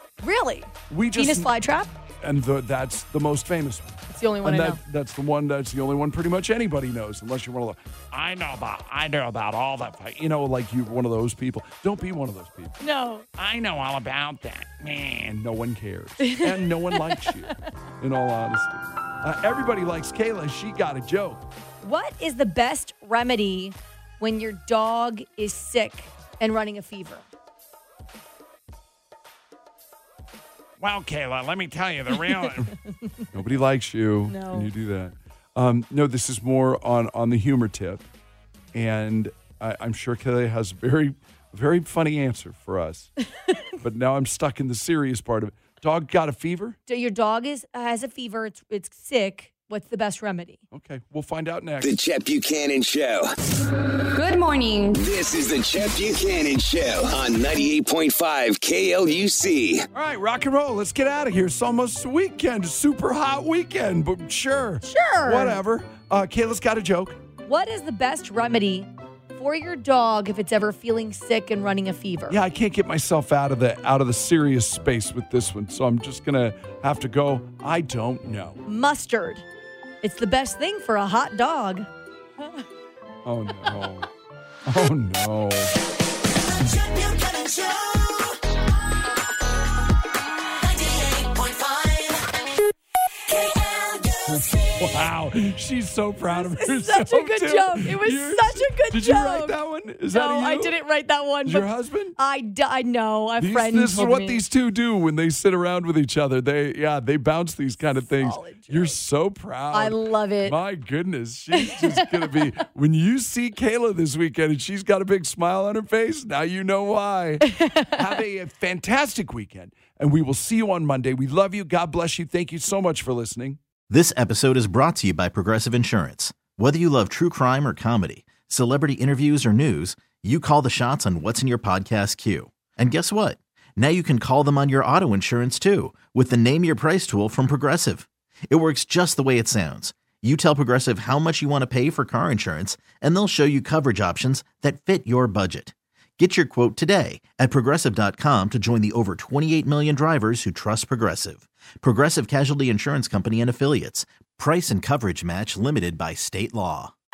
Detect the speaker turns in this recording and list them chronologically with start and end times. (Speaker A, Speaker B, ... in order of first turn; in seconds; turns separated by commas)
Speaker A: 0.2-1.9, Speaker B: 0.9-1.5, Speaker B: 2.2-12.8, Speaker A: 4.1-4.8, Speaker A: 12.8-13.3, Speaker B: 13.4-21.4, Speaker A: 16.2-17.5, Speaker A: 21.8-27.3, Speaker B: 30.8-32.7, Speaker A: 32.2-33.2, Speaker B: 33.3-38.0, Speaker A: 34.3-34.7, Speaker B: 38.7-43.1, Speaker B: 43.8-46.8, Speaker A: 46.9-50.6, Speaker B: 50.7-52.0, Speaker C: 51.8-53.3, Speaker D: 54.1-55.0, Speaker C: 55.0-59.9, Speaker B: 59.9-67.2, Speaker A: 64.8-65.6, Speaker A: 67.5-72.4, Speaker B: 72.3-78.6, Speaker A: 78.7-79.4, Speaker A: 80.0-81.9, Speaker B: 83.2-84.1, Speaker B: 84.7-85.7, Speaker D: 86.4-88.4, Speaker D: 90.6-92.2, Speaker D: 93.3-94.9, Speaker B: 94.8-100.8, Speaker A: 96.3-99.6, Speaker A: 100.1-104.4, Speaker B: 101.5-102.2, Speaker B: 103.4-123.6, Speaker A: 107.9-109.0, Speaker A: 109.7-110.6, Speaker A: 111.6-112.3, Speaker A: 117.4-118.0, Speaker E: 123.9-156.9